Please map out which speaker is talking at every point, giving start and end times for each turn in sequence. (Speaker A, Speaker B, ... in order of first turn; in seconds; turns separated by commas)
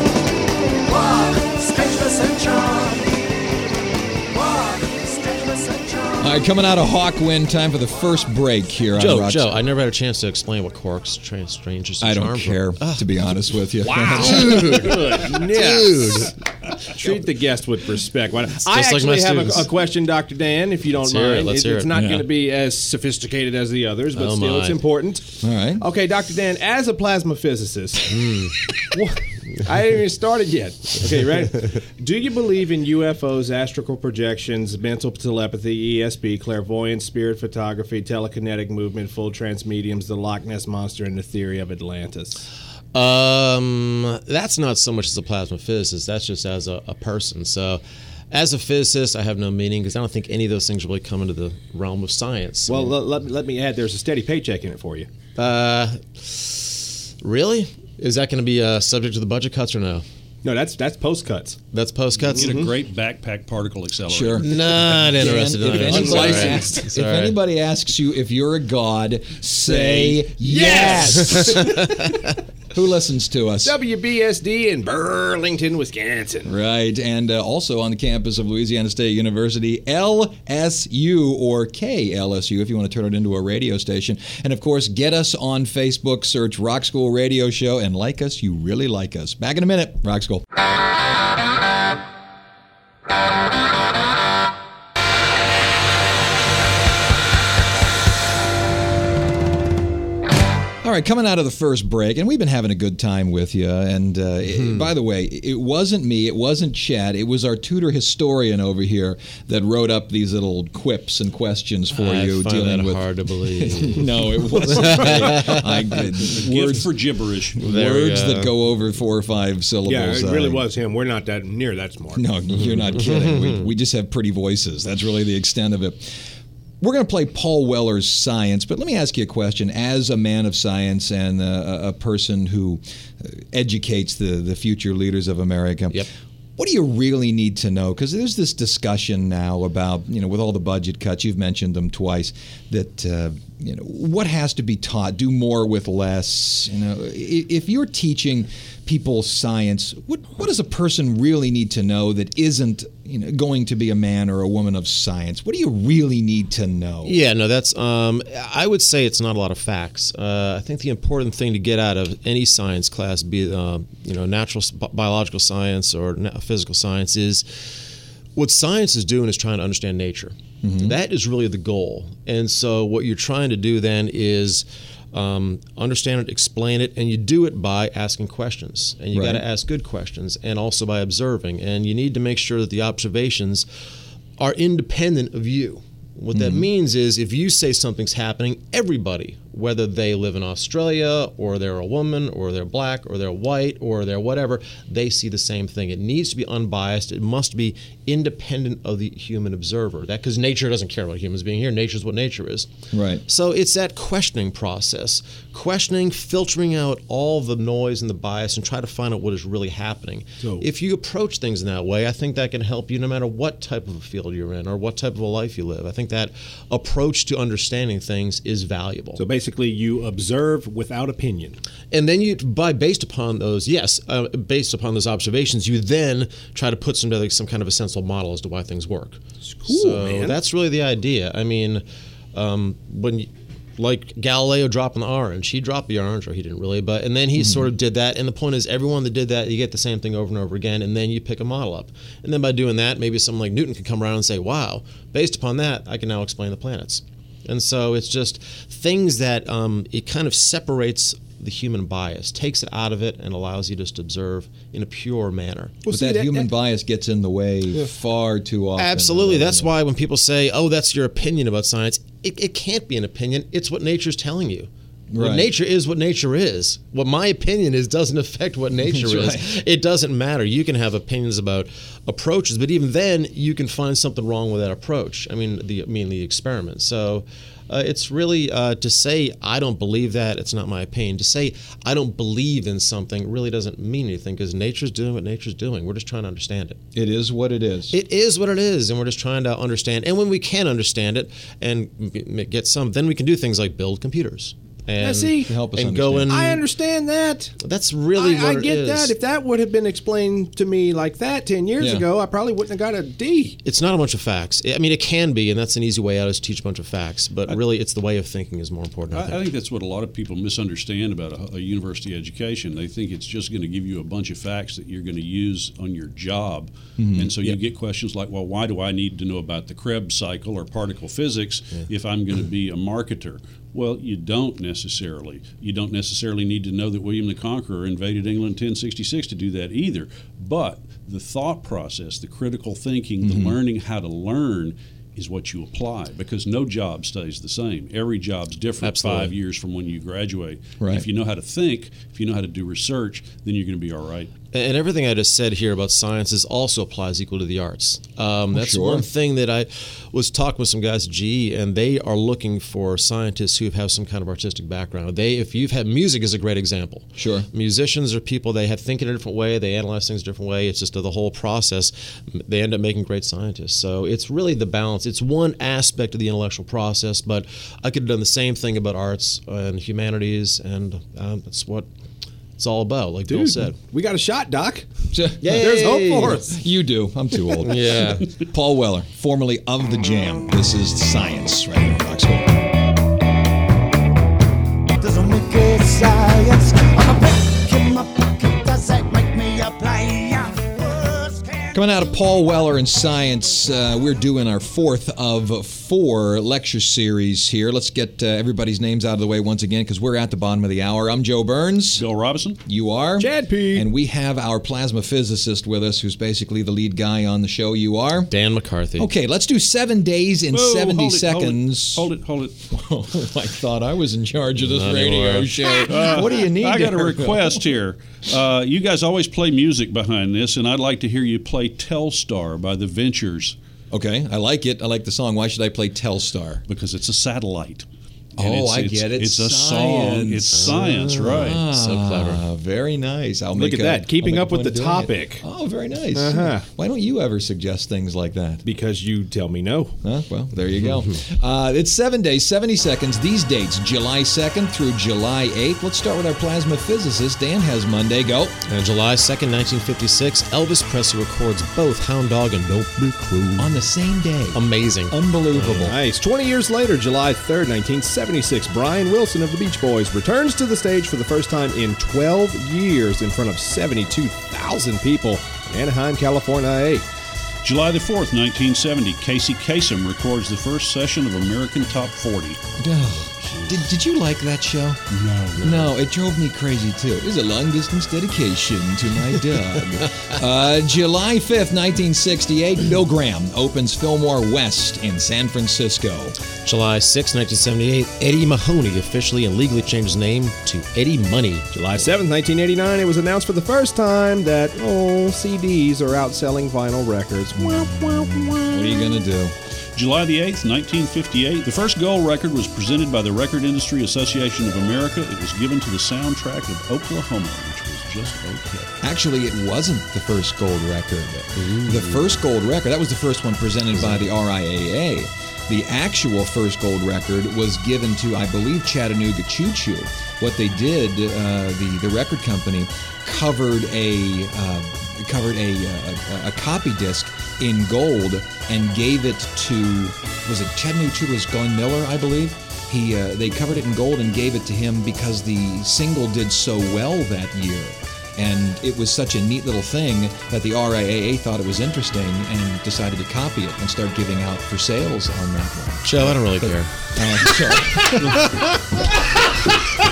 Speaker A: 0.9-3.1, Speaker A: 4.3-6.2, Speaker B: 6.2-9.6, Speaker C: 8.9-13.1, Speaker B: 12.0-15.1, Speaker D: 13.9-28.2, Speaker C: 13.9-16.4, Speaker C: 18.6-19.7, Speaker C: 20.9-21.9, Speaker B: 21.9-22.3, Speaker C: 24.1-24.8, Speaker B: 25.4-25.8, Speaker C: 28.1-28.5, Speaker D: 28.8-42.4, Speaker C: 42.9-52.9, Speaker D: 52.7-55.1, Speaker C: 55.4-60.0, Speaker D: 60.4-61.6, Speaker C: 61.7-62.5, Speaker D: 62.3-62.7, Speaker E: 62.3-64.5, Speaker B: 64.1-72.1, Speaker C: 64.4-67.3, Speaker D: 65.8-66.8, Speaker D: 69.7-72.2, Speaker B: 72.7-73.8, Speaker D: 73.6-76.5, Speaker B: 76.4-90.4, Speaker B: 100.8-116.9, Speaker C: 111.9-116.0, Speaker E: 116.2-117.7, Speaker B: 117.5-120.6, Speaker C: 117.6-118.5, Speaker D: 119.8-122.3, Speaker B: 122.1-126.2, Speaker C: 122.5-123.7, Speaker B: 126.8-136.1, Speaker B: 136.6-157.2, Speaker C: 157.0-167.7, Speaker C: 168.3-183.7, Speaker B: 170.6-170.9, Speaker B: 179.1-179.4, Speaker C: 184.4-202.7, Speaker B: 186.3-186.7, Speaker B: 202.9-203.2, Speaker C: 203.2-219.2, Speaker D: 219.2-221.6, Speaker C: 221.9-255.8, Speaker D: 229.4-230.4, Speaker B: 237.4-237.6, Speaker D: 255.8-256.5, Speaker B: 255.9-259.7, Speaker C: 258.8-286.8, Speaker B: 265.1-265.5, Speaker B: 268.8-269.6, Speaker B: 286.9-287.9, Speaker C: 287.9-296.6, Speaker D: 295.0-295.5, Speaker B: 295.4-296.4, Speaker D: 296.3-297.5, Speaker C: 297.6-299.1, Speaker D: 298.1-303.6, Speaker B: 301.8-302.1, Speaker C: 303.6-309.4, Speaker E: 309.1-344.3, Speaker B: 317.0-317.5, Speaker B: 333.2-333.6, Speaker C: 338.8-339.3, Speaker B: 340.8-341.1, Speaker C: 344.5-371.9, Speaker B: 348.5-349.0, Speaker B: 357.2-357.5, Speaker C: 372.6-373.7, Speaker B: 373.3-373.6, Speaker D: 373.8-374.9, Speaker B: 375.1-375.8, Speaker C: 375.4-376.4, Speaker D: 375.5-376.6, Speaker B: 376.5-382.7, Speaker C: 377.6-378.3, Speaker A: 384.9-391.7, Speaker B: 391.7-402.1, Speaker E: 401.9-402.6, Speaker B: 402.6-408.3, Speaker D: 403.2-403.9, Speaker C: 408.3-409.1, Speaker B: 409.0-412.1, Speaker E: 410.5-412.6, Speaker B: 412.7-417.6, Speaker C: 414.6-415.9, Speaker E: 415.9-423.6, Speaker B: 423.9-426.6, Speaker E: 426.7-427.9, Speaker B: 428.4-438.6, Speaker E: 428.4-431.6, Speaker C: 430.5-432.4, Speaker D: 433.5-435.4, Speaker D: 436.1-436.7, Speaker D: 438.6-440.0, Speaker B: 440.0-448.6, Speaker C: 440.8-441.2, Speaker C: 448.7-453.8, Speaker B: 453.6-456.0, Speaker C: 454.5-455.9, Speaker D: 455.6-467.0, Speaker E: 467.6-472.6, Speaker B: 472.8-475.0, Speaker E: 475.1-475.9, Speaker B: 475.6-486.4, Speaker C: 480.0-480.4, Speaker C: 486.6-491.6, Speaker D: 491.7-499.2, Speaker B: 498.7-499.5, Speaker E: 499.9-508.9, Speaker B: 509.0-549.7, Speaker C: 511.6-512.2, Speaker C: 513.9-514.2, Speaker C: 546.0-546.9